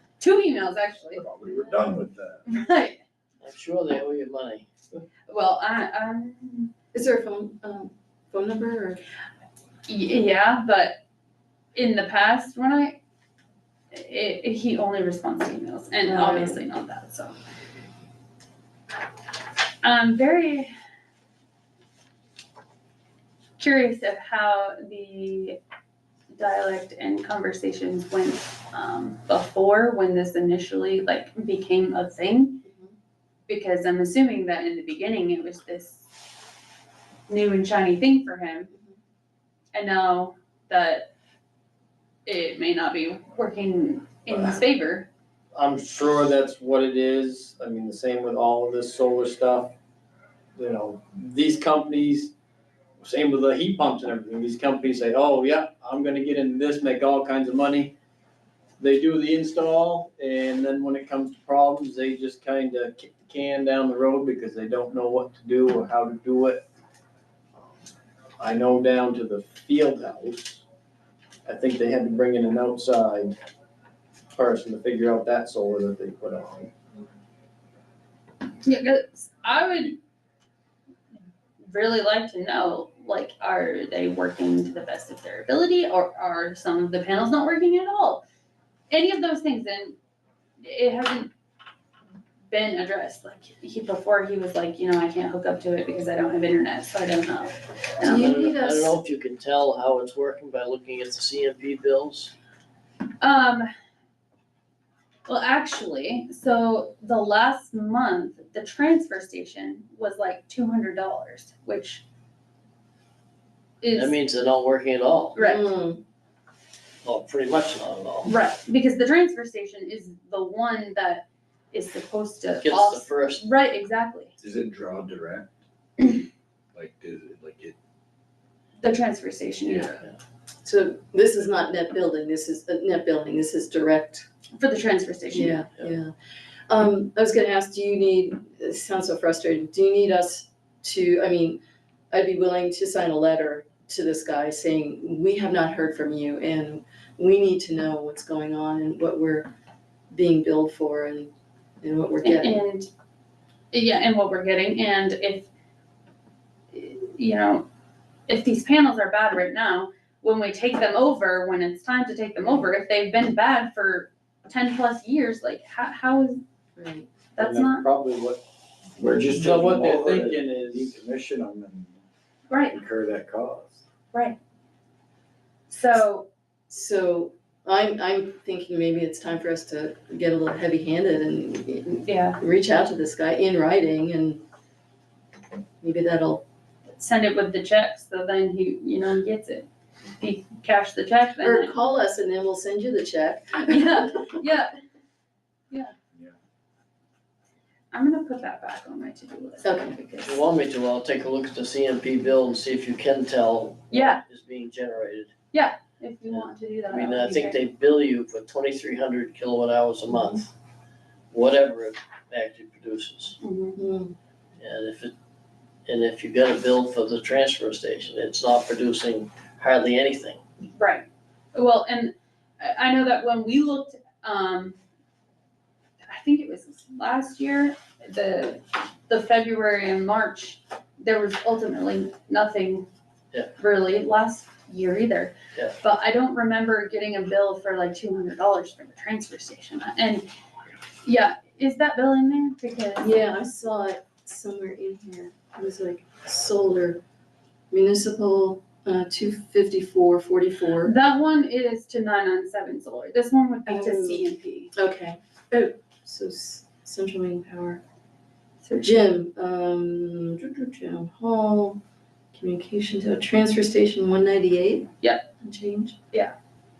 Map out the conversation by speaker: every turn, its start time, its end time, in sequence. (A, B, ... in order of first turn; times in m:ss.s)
0:00.2-0:01.2 A
0:01.1-0:02.4 B
0:02.5-0:03.0 A
0:03.4-0:04.7 C
0:05.3-0:06.7 A
0:06.9-0:09.0 D
0:09.9-0:11.0 A
0:11.7-0:13.0 A
0:13.9-0:17.4 A
0:16.0-0:16.6 D
0:19.8-0:20.7 A
0:23.6-0:25.6 A
0:26.3-0:32.6 A
0:32.6-0:32.9 D
0:33.5-0:36.0 A
0:37.3-0:38.7 A
0:38.7-0:39.0 D
0:39.7-0:41.1 A
0:42.2-0:45.1 A
0:44.3-0:44.6 E
0:45.5-0:49.7 E
0:50.5-0:52.3 E
0:53.0-0:57.9 E
0:58.8-1:06.6 E
1:08.4-1:10.6 E
1:11.4-1:13.4 E
1:14.4-1:16.7 E
1:18.6-1:20.0 A
1:21.6-1:28.2 A
1:28.9-1:30.0 A
1:30.6-1:31.3 A
1:32.5-1:38.2 A
1:38.0-1:39.0 D
1:38.0-1:42.3 C
1:43.2-1:43.7 A
1:45.2-1:52.0 A
1:53.8-1:54.1 A
1:53.9-1:55.4 C
1:55.3-1:55.6 A
1:55.4-1:56.0 D
1:57.0-1:58.3 C
1:58.3-2:04.3 A
2:02.6-2:03.4 C
2:04.4-2:06.2 B
2:06.7-2:07.8 B
2:08.8-2:09.7 A
2:09.6-2:10.0 B
2:10.6-2:14.2 D
2:14.6-2:15.6 A
2:15.3-2:16.1 D
2:16.7-2:21.6 D
2:22.1-2:29.5 D
2:30.1-2:31.3 D
2:31.8-2:32.6 D
2:32.2-2:32.9 A
2:33.7-2:35.5 A
2:36.7-2:37.7 A
2:38.3-2:46.4 A
2:46.8-2:47.1 D
2:47.4-2:47.8 A
2:47.4-2:48.4 E
2:49.0-2:52.0 B
2:49.3-2:51.0 E
2:52.5-2:52.7 A
2:52.7-2:53.6 B
2:55.7-2:56.3 A
2:56.7-3:04.4 D
3:02.1-3:02.4 A
3:05.8-3:06.4 D
3:06.9-3:09.7 A
3:10.2-3:11.6 A
3:11.4-3:14.4 D
3:13.9-3:14.7 A
3:17.9-3:20.3 A
3:19.6-3:20.0 D
3:20.2-3:25.3 C
3:23.9-3:24.2 A
3:25.5-3:27.6 A
3:26.3-3:30.5 C
3:30.1-3:30.4 D
3:31.3-3:33.4 C
3:33.4-3:33.8 A
3:33.8-3:34.1 D
3:34.6-3:35.1 C
3:35.9-3:40.4 C
3:40.8-3:44.8 A
3:46.0-3:52.9 A
3:53.6-4:00.3 A
4:01.0-4:03.1 A
4:03.0-4:07.0 D
4:07.7-4:10.9 D
4:10.8-4:14.5 A
4:13.6-4:17.8 D
4:18.8-4:21.8 D
4:22.3-4:26.0 D